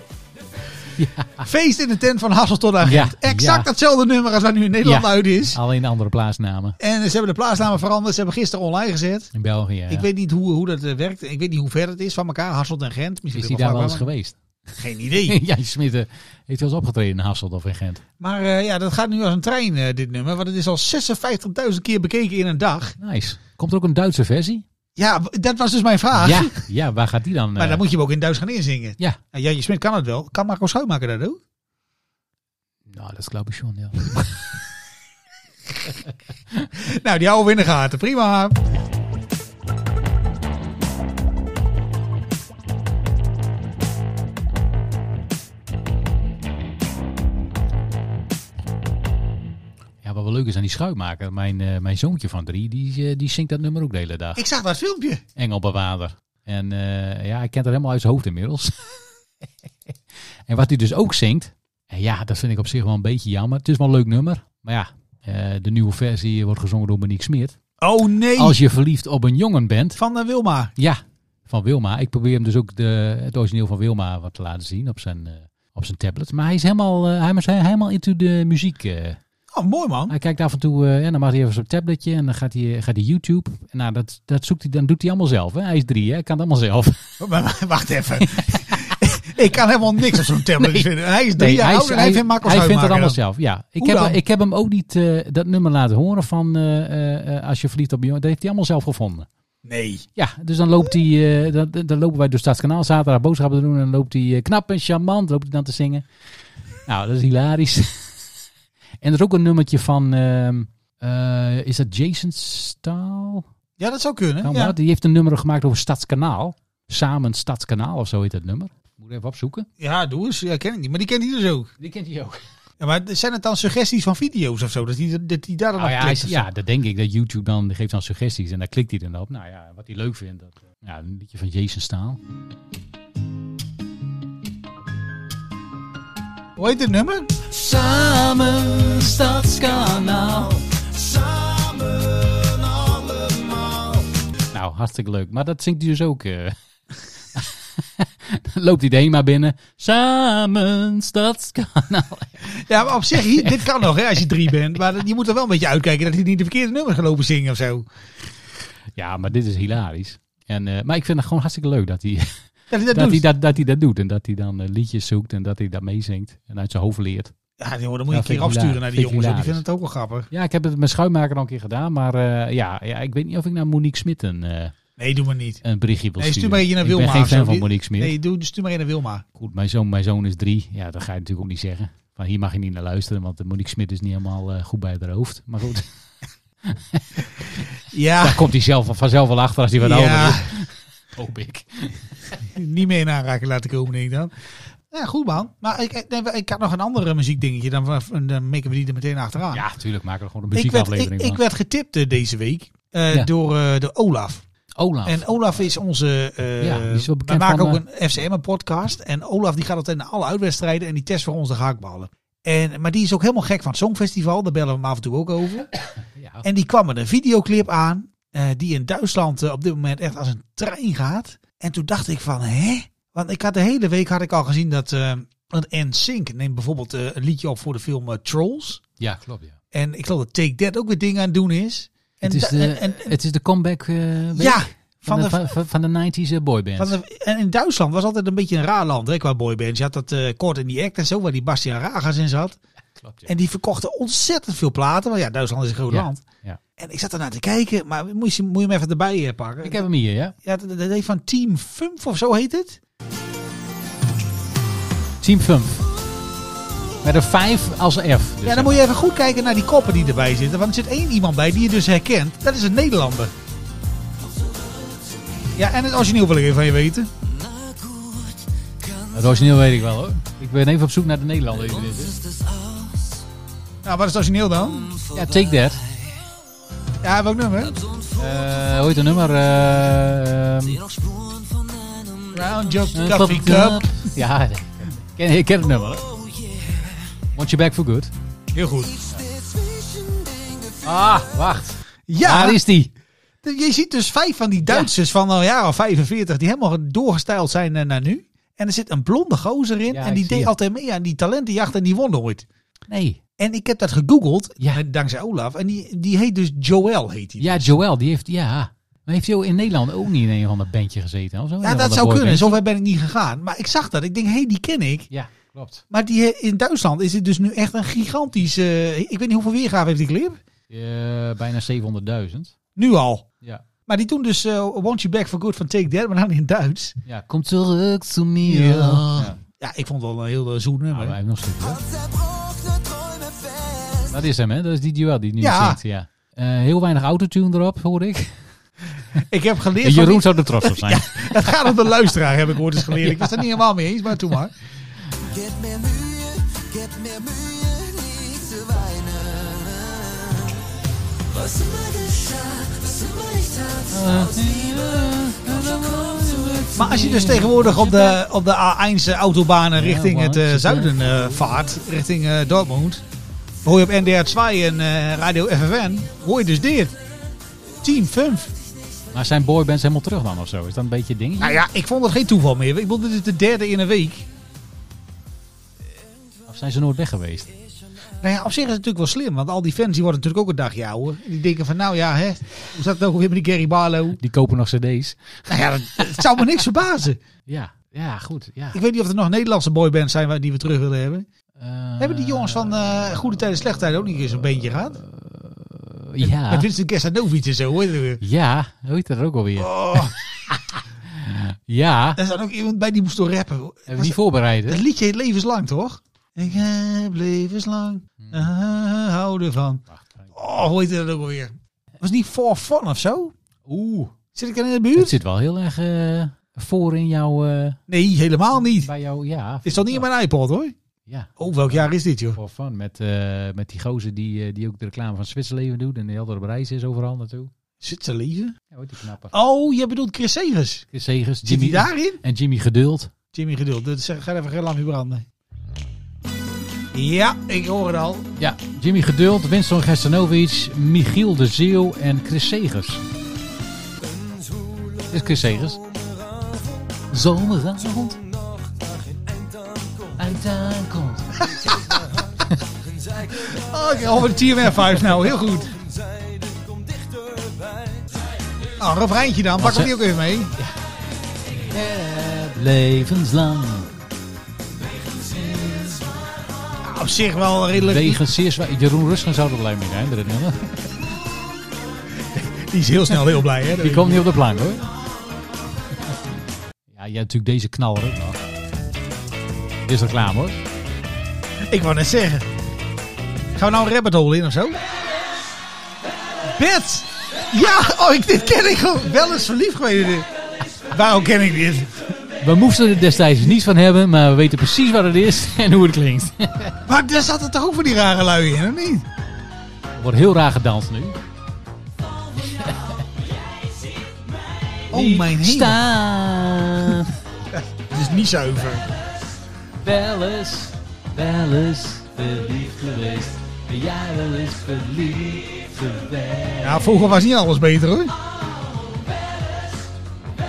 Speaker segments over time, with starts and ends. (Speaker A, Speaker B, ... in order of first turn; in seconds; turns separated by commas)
Speaker A: 1.0-1.5, Speaker B: 1.4-5.6, Speaker A: 2.8-3.7, Speaker A: 4.8-6.8, Speaker B: 6.8-9.3, Speaker A: 9.3-10.1, Speaker B: 9.9-14.1, Speaker A: 13.3-14.4, Speaker B: 14.8-15.4, Speaker A: 15.2-18.0, Speaker B: 18.2-23.0, Speaker A: 23.0-24.6, Speaker B: 25.0-26.6, Speaker A: 26.1-27.8, Speaker B: 27.6-31.4, Speaker A: 32.9-34.3, Speaker B: 36.8-38.6, Speaker A: 50.0-54.4, Speaker B: 54.4-55.2, Speaker A: 55.4-58.8, Speaker A: 60.5-67.6, Speaker B: 67.8-68.6, Speaker A: 68.3-70.0, Speaker B: 70.0-70.7, Speaker A: 70.8-79.2, Speaker B: 79.5-80.1, Speaker A: 80.1-87.1, Speaker B: 87.2-93.2, Speaker A: 90.6-99.3, Speaker B: 93.8-94.2, Speaker B: 99.6-100.0, Speaker A: 100.2-106.1, Speaker A: 106.9-108.3, Speaker A: 109.0-113.5, Speaker B: 113.8-114.8, Speaker A: 114.4-119.7, Speaker B: 119.8-121.7, Speaker A: 121.8-122.4, Speaker B: 122.8-126.5, Speaker A: 125.8-132.2, Speaker B: 136.6-137.3, Speaker A: 137.5-140.6, Speaker C: 141.0-144.0, Speaker A: 144.5-146.6, Speaker A: 147.3-152.6, Speaker B: 152.5-157.9, Speaker A: 153.2-153.8, Speaker A: 158.9-167.3, Speaker B: 162.7-163.3, Speaker B: 167.6-170.3, Speaker A: 168.1-169.6, Speaker A: 170.3-174.8, Speaker B: 175.0-175.6, Speaker A: 175.6-178.1, Speaker B: 176.2-179.2, Speaker A: 179.3-185.9, Speaker A: 186.7-187.2, Speaker B: 187.9-188.5, Speaker A: 188.2-192.4, Speaker B: 189.8-190.6, Speaker B: 192.5-194.3, Speaker B: 194.9-199.6, Speaker A: 199.5-201.4, Speaker B: 200.5-204.4, Speaker A: 204.8-205.3, Speaker B: 205.1-215.7, Speaker A: 206.6-207.8, Speaker A: 216.2-216.5, Speaker B: 216.4-228.8, Speaker A: 229.0-229.6, Speaker B: 229.7-233.1, Speaker A: 232.2-236.9, Speaker B: 234.4-235.5, Speaker B: 236.8-242.6, Speaker A: 242.9-243.3, Speaker B: 243.3-246.2, Speaker A: 245.9-246.6, Speaker B: 246.8-249.8, Speaker A: 249.6-250.3, Speaker B: 250.4-252.8, Speaker A: 255.2-255.9, Speaker A: 257.0-258.8, Speaker B: 258.4-263.3, Speaker B: 265.6-267.1, Speaker A: 269.1-272.3, Speaker B: 273.8-275.0, Speaker A: 275.1-275.8, Speaker B: 277.0-277.8, Speaker A: 278.1-280.9, Speaker B: 282.3-283.9, Speaker A: 282.9-286.1, Speaker A: 287.3-288.1, Speaker B: 288.5-289.0, Speaker A: 290.8-292.9, Speaker B: 292.1-292.6, Speaker B: 293.4-302.5, Speaker A: 299.9-300.5, Speaker A: 302.9-303.2, Speaker B: 303.4-307.7, Speaker A: 307.4-312.6, Speaker B: 311.6-315.1, Speaker A: 315.1-315.8, Speaker B: 315.9-320.4, Speaker A: 320.7-322.6, Speaker B: 322.8-323.3, Speaker B: 323.9-327.0, Speaker A: 327.1-329.4, Speaker B: 328.4-331.2, Speaker A: 330.9-331.8, Speaker A: 334.0-338.4, Speaker B: 335.4-335.8, Speaker B: 339.1-344.5, Speaker A: 339.8-341.5, Speaker A: 343.0-343.4, Speaker C: 353.2-353.5, Speaker A: 353.8-358.2, Speaker B: 356.8-363.0, Speaker A: 359.8-361.3, Speaker B: 363.6-367.0, Speaker B: 367.8-368.5, Speaker A: 369.1-371.6, Speaker B: 371.4-374.3, Speaker A: 376.5-377.6, Speaker B: 378.2-384.2, Speaker A: 384.2-385.5, Speaker B: 385.5-387.2, Speaker A: 387.5-388.8, Speaker B: 388.7-391.3, Speaker A: 391.6-393.1, Speaker B: 392.0-395.0, Speaker A: 394.7-396.7, Speaker B: 396.2-398.2, Speaker A: 398.2-402.2, Speaker B: 399.6-400.1, Speaker B: 402.2-409.8, Speaker A: 403.9-404.8, Speaker A: 408.2-408.4, Speaker A: 409.9-410.3, Speaker B: 410.3-413.3, Speaker A: 413.7-414.1, Speaker B: 414.3-415.2, Speaker A: 415.0-417.8, Speaker B: 417.9-418.9, Speaker A: 418.7-420.1, Speaker B: 419.6-420.8, Speaker A: 421.1-427.5, Speaker B: 421.4-422.4, Speaker B: 427.8-428.6, Speaker A: 428.7-429.4, Speaker B: 429.3-430.9, Speaker A: 430.9-433.1, Speaker B: 431.4-432.2, Speaker B: 433.3-435.3, Speaker B: 436.9-438.3, Speaker A: 438.4-443.0, Speaker A: 445.0-445.8, Speaker A: 447.1-448.2, Speaker A: 450.2-451.8, Speaker B: 451.5-452.0, Speaker B: 453.3-455.7, Speaker B: 458.8-460.5, Speaker A: 459.6-459.9, Speaker A: 461.7-464.0, Speaker A: 465.2-466.1, Speaker B: 466.8-468.2, Speaker A: 467.8-470.8, Speaker B: 472.3-474.3, Speaker A: 473.8-474.9, Speaker A: 476.9-478.4, Speaker A: 479.9-480.6, Speaker B: 481.7-482.5, Speaker B: 483.6-484.8, Speaker B: 486.5-490.3, Speaker B: 490.9-492.1, Speaker A: 492.4-496.8, Speaker B: 496.9-499.1, Speaker A: 500.0-501.2, Speaker A: 502.4-503.0, Speaker A: 504.9-507.2, Speaker B: 504.9-505.8, Speaker B: 507.5-508.9, Speaker A: 509.8-517.0, Speaker B: 516.6-518.1